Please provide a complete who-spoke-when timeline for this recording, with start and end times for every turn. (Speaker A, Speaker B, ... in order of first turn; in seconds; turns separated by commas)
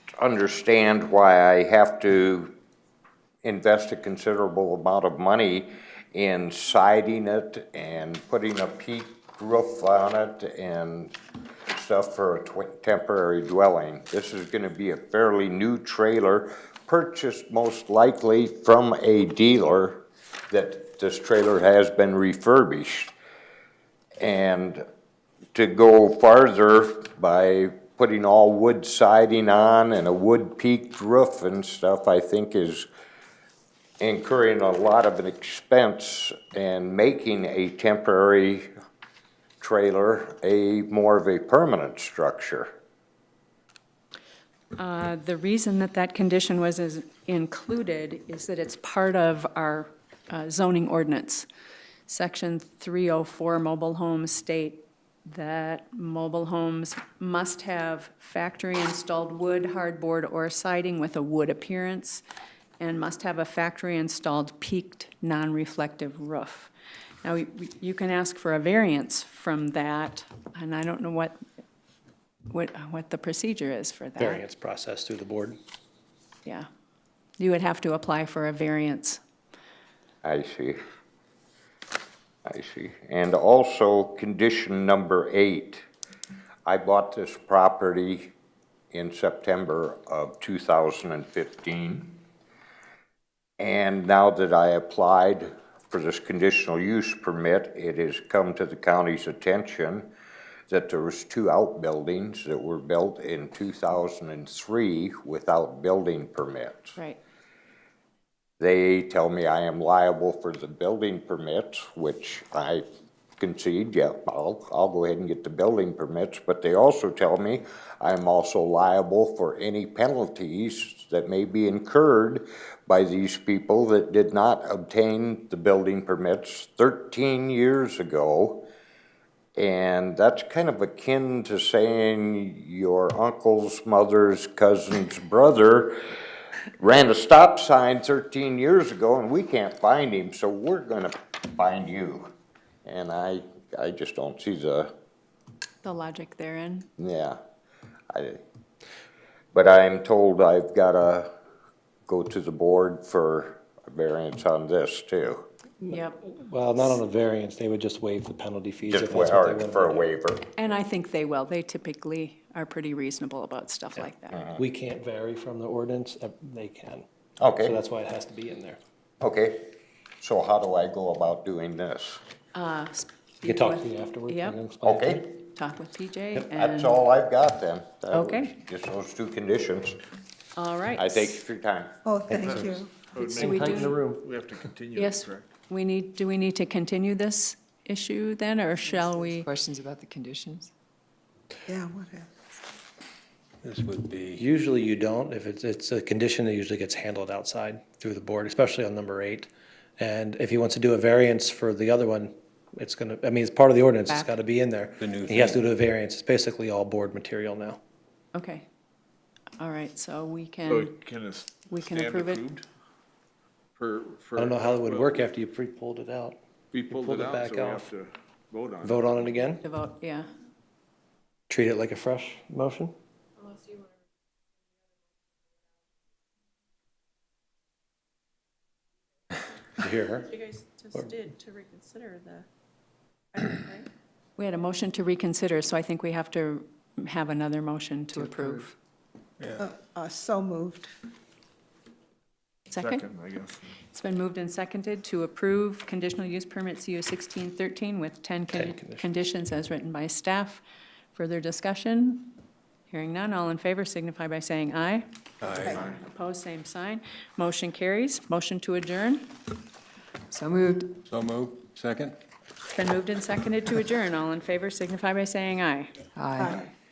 Speaker A: 0.2-2.5, Speaker A: 3.4-11.2, Speaker A: 11.7-23.1, Speaker A: 24.2-24.9, Speaker A: 25.5-32.9, Speaker A: 34.0-38.7, Speaker A: 39.6-42.7, Speaker B: 44.8-51.5, Speaker B: 52.1-62.2, Speaker B: 62.8-66.7, Speaker B: 67.2-71.3, Speaker B: 72.5-74.4, Speaker C: 74.2-75.6, Speaker B: 77.4-79.2, Speaker A: 80.2-80.8, Speaker A: 82.5-85.8, Speaker A: 86.7-88.3, Speaker A: 88.9-92.2, Speaker A: 93.6-100.1, Speaker A: 100.7-107.0, Speaker A: 108.6-112.8, Speaker A: 113.4-128.6, Speaker A: 129.6-136.0, Speaker A: 136.8-142.3, Speaker A: 142.8-144.9, Speaker B: 145.8-146.9, Speaker A: 147.0-147.4, Speaker A: 148.1-148.4, Speaker A: 149.5-151.3, Speaker A: 152.1-155.4, Speaker C: 155.8-160.1, Speaker B: 155.9-156.2, Speaker A: 158.9-160.4, Speaker B: 160.6-164.4, Speaker A: 164.3-164.6, Speaker C: 164.6-167.1, Speaker A: 167.4-167.8, Speaker C: 167.6-168.8, Speaker A: 169.2-169.6, Speaker A: 170.2-172.2, Speaker B: 172.6-174.6, Speaker C: 173.4-175.2, Speaker A: 174.8-175.3, Speaker B: 175.5-177.0, Speaker A: 176.5-180.0, Speaker B: 178.1-178.5, Speaker B: 180.6-181.4, Speaker A: 181.0-181.9, Speaker D: 182.1-183.1, Speaker C: 182.3-182.8, Speaker E: 183.1-185.5, Speaker B: 183.2-184.0, Speaker C: 183.3-184.2, Speaker B: 184.9-189.5, Speaker F: 188.9-190.7, Speaker D: 191.7-192.3, Speaker G: 193.6-194.4, Speaker C: 194.4-207.8, Speaker G: 205.0-205.7, Speaker B: 208.3-208.7, Speaker B: 209.6-210.9, Speaker E: 210.7-212.7, Speaker B: 211.7-212.4, Speaker E: 213.8-215.2, Speaker C: 214.3-217.9, Speaker E: 216.7-219.3, Speaker C: 218.8-219.6, Speaker B: 219.6-220.3, Speaker C: 221.5-222.9, Speaker H: 223.4-223.9, Speaker C: 229.8-230.4, Speaker H: 230.4-232.4, Speaker H: 233.4-233.9, Speaker B: 234.4-238.7, Speaker F: 238.1-238.7, Speaker D: 239.6-240.9, Speaker B: 242.7-243.1, Speaker E: 242.8-243.7, Speaker B: 243.9-250.6, Speaker C: 248.5-249.1, Speaker B: 251.1-252.4, Speaker B: 252.9-255.1, Speaker G: 255.4-255.8, Speaker B: 255.7-259.4, Speaker F: 260.3-261.1, Speaker G: 261.1-262.2, Speaker B: 262.7-265.9, Speaker F: 266.1-266.6, Speaker D: 266.4-266.7